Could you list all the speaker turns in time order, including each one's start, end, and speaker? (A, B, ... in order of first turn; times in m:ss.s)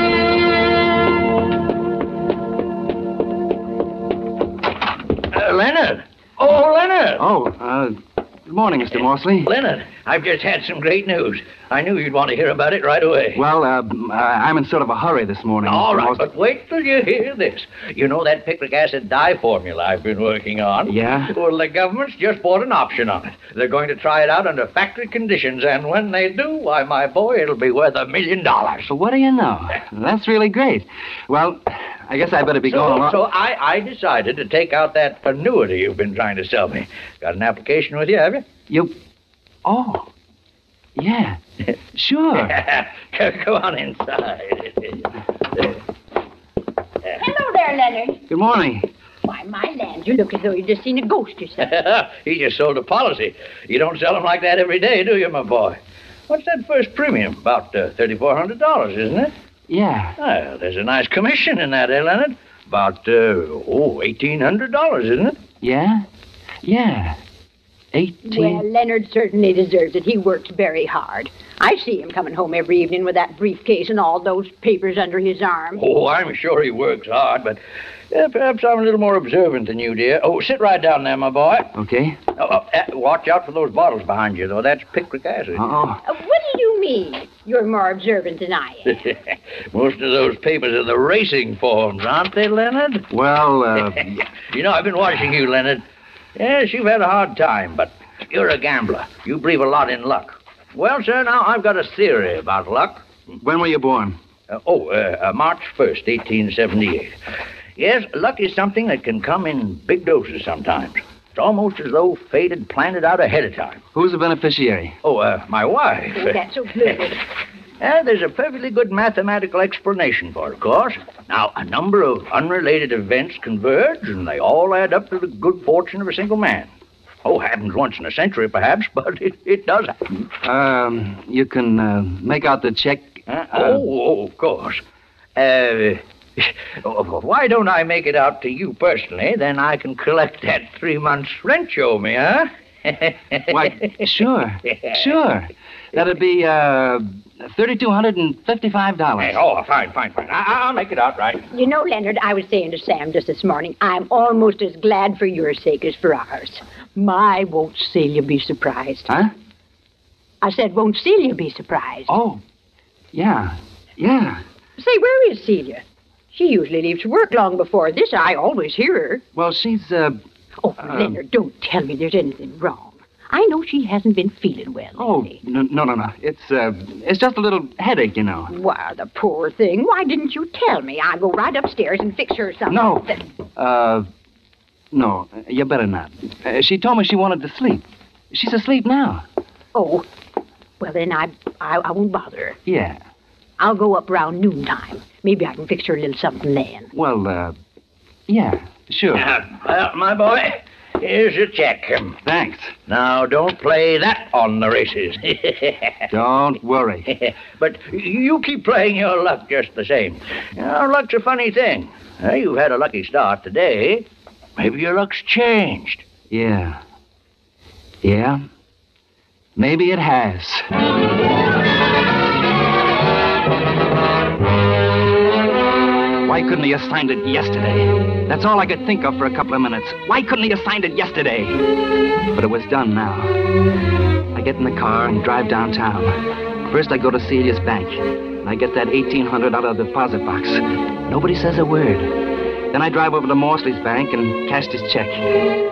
0:05.3-0:07.2 A
0:07.2-0:09.5 B
0:09.4-0:13.4 A
0:13.3-0:16.3 B
0:15.6-0:28.9 A
0:20.9-0:21.3 B
0:28.8-0:33.2 B
0:32.6-0:38.4 A
0:38.7-0:39.0 B
0:39.6-0:40.1 B
0:41.0-0:41.4 B
0:41.9-0:42.5 B
0:42.5-0:45.0 A
0:47.2-0:48.2 C
0:48.3-0:48.9 B
0:49.3-0:51.6 C
0:51.8-0:59.3 A
0:59.7-1:00.1 B
1:00.2-1:05.4 A
1:05.6-1:06.0 B
1:06.6-1:07.2 B
1:07.9-1:08.6 B
1:08.2-1:15.8 C
1:15.8-1:17.6 A
1:18.1-1:21.7 A
1:21.7-1:22.2 B
1:22.4-1:25.6 A
1:25.6-1:26.0 B
1:26.1-1:29.0 C
1:29.7-1:33.0 A
1:33.1-1:34.2 B
1:34.5-1:35.8 A
1:36.4-1:43.0 A
1:43.4-1:44.2 B
1:44.5-1:47.1 A
1:47.8-1:53.8 A
1:53.9-1:55.0 B
1:55.0-1:56.3 A
1:56.1-1:57.2 C
1:57.8-2:06.7 A
2:07.2-2:09.9 A
2:10.4-2:13.8 B
2:13.3-2:14.8 A
2:15.4-2:16.0 A
2:16.8-2:22.5 A
2:23.5-2:29.4 B
2:29.2-2:31.4 A
2:31.5-2:39.1 C
2:40.4-2:42.1 C
2:42.1-2:42.4 B
2:43.1-2:44.4 B
2:44.8-2:49.2 C
2:49.3-2:50.2 B
2:50.6-2:55.3 C
2:50.8-2:51.2 B
2:55.0-2:58.5 B
2:58.5-3:03.1 C
3:02.6-3:04.1 B
3:04.9-3:09.2 B
3:09.7-3:10.0 C
3:10.8-3:12.6 C
3:12.6-3:13.0 B
3:13.6-3:16.9 C
3:16.9-3:17.6 B
3:18.3-3:19.2 B
3:19.2-3:22.1 A
3:22.2-3:22.7 B
3:22.9-3:25.4 A
3:26.1-3:27.1 B
3:27.6-3:34.0 A
3:34.6-3:36.0 A
3:36.3-3:36.8 B
3:38.0-3:38.4 B
3:39.6-3:40.6 B
3:46.2-3:51.7 B
3:52.3-3:53.4 B
3:54.3-4:02.2 B
4:02.7-4:05.2 B